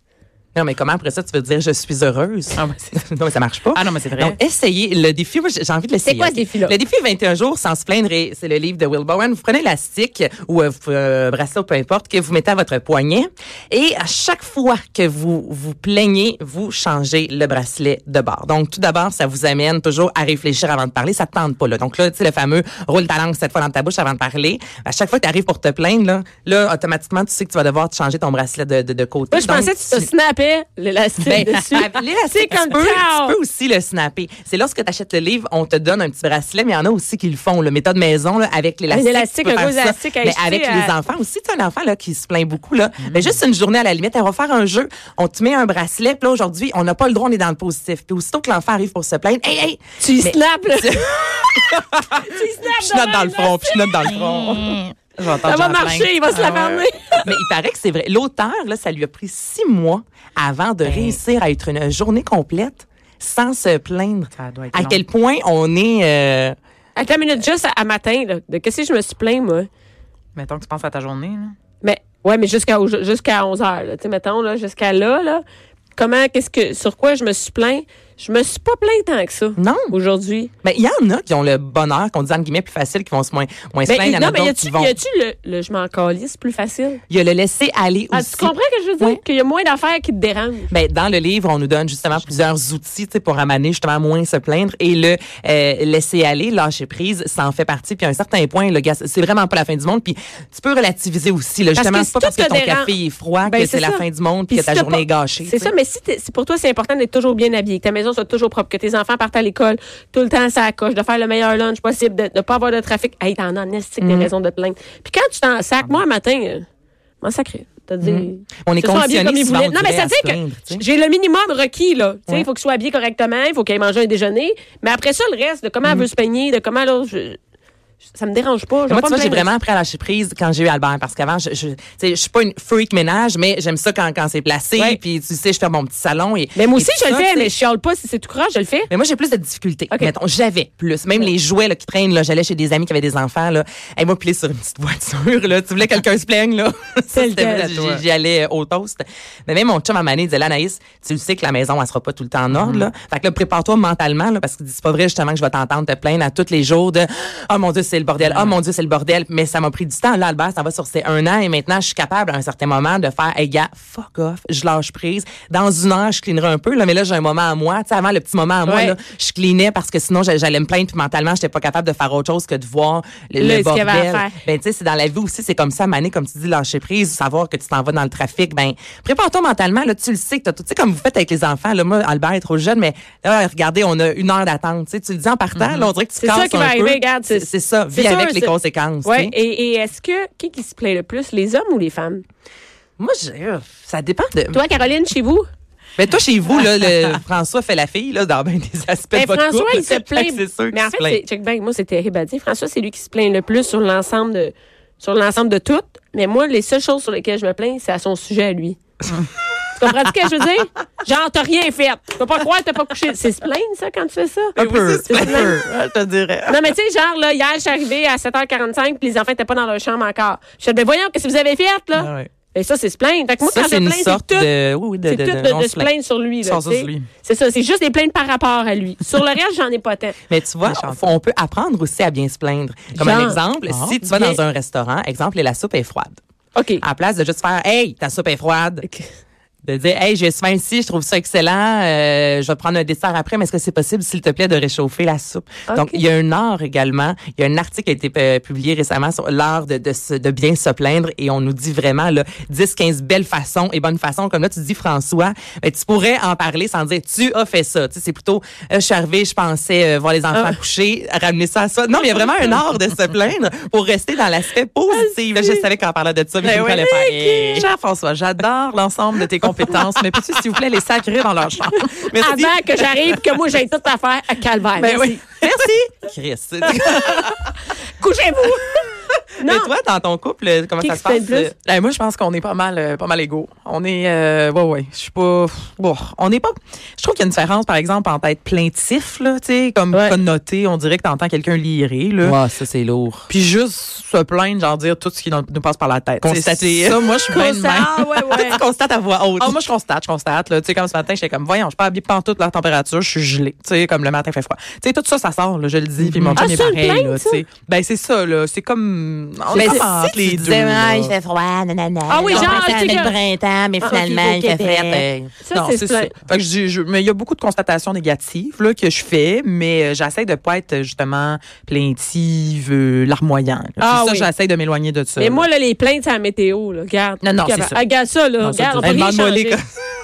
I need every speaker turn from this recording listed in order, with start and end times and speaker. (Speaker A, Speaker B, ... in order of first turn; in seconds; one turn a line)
Speaker A: 0.6-30.1
Speaker B: 2.5-3.0
Speaker B: 3.7-4.4
Speaker C: 6.0-6.8
Speaker C: 29.3-33.4
Speaker A: 31.2-54.7
Speaker C: 38.9-41.0
Speaker B: 43.0-43.4
Speaker C: 50.0-51.5
Speaker C: 52.2-54.1
Speaker B: 54.0-56.9
Speaker C: 55.3-57.3
Speaker A: 57.2-66.6
Speaker B: 60.9-61.2
Speaker B: 64.3-65.0
Speaker C: 67.0-69.7
Speaker B: 70.3-71.6
Speaker C: 71.8-75.4
Speaker C: 76.0-80.5
Speaker A: 79.6-80.0
Speaker A: 80.6-84.9
Speaker C: 83.9-87.0
Speaker A: 87.1-89.2
Speaker C: 88.1-90.7
Speaker A: 90.7-105.7
Speaker C: 101.8-116.7
Speaker A: 114.0-114.3
Speaker C: 117.2-127.4
Speaker A: 118.0-120.8
Speaker C: 128.2-129.5
Speaker A: 128.9-137.5
Speaker C: 136.6-138.9
Speaker A: 138.9-189.3
Speaker C: 147.1-147.7
Speaker B: 147.5-148.0
Speaker B: 152.5-152.9
Speaker B: 158.2-158.6
Speaker C: 168.7-169.0
Speaker C: 173.4-174.3
Speaker B: 185.6-185.9
Speaker C: 186.2-192.2
Speaker A: 193.0-194.6
Speaker C: 194.5-195.5
Speaker A: 196.0-201.2
Speaker C: 199.1-208.8
Speaker C: 209.8-215.6
Speaker B: 214.6-216.7
Speaker A: 214.7-215.5
Speaker C: 216.5-224.5
Speaker A: 222.0-222.2
Speaker A: 223.5-225.9
Speaker C: 225.1-230.2
Speaker B: 226.4-227.1
Speaker A: 230.3-236.2
Speaker B: 230.6-231.1
Speaker C: 232.9-233.4
Speaker B: 233.7-234.1
Speaker C: 234.1-234.4
Speaker C: 236.6-236.8
Speaker A: 236.8-238.8
Speaker A: 239.6-267.7
Speaker C: 245.7-246.0
Speaker B: 266.4-272.1
Speaker A: 272.0-272.6
Speaker C: 272.2-275.2
Speaker B: 274.8-275.6
Speaker A: 275.4-277.5
Speaker C: 276.9-277.3
Speaker C: 278.0-279.7
Speaker A: 279.4-281.5
Speaker C: 280.8-281.5
Speaker B: 281.6-292.4
Speaker C: 289.9-290.2
Speaker A: 292.2-293.3
Speaker B: 293.3-298.6
Speaker A: 296.2-299.6
Speaker C: 297.3-298.6
Speaker B: 299.4-311.1
Speaker A: 306.0-306.5
Speaker C: 306.4-307.4
Speaker A: 309.5-315.3
Speaker C: 309.6-309.8
Speaker C: 312.1-313.1
Speaker B: 312.2-313.1
Speaker C: 313.8-316.2
Speaker B: 314.6-314.9
Speaker B: 315.5-325.5
Speaker C: 323.8-324.3
Speaker C: 325.2-329.6
Speaker B: 327.2-327.8
Speaker B: 328.4-329.0
Speaker A: 328.8-329.7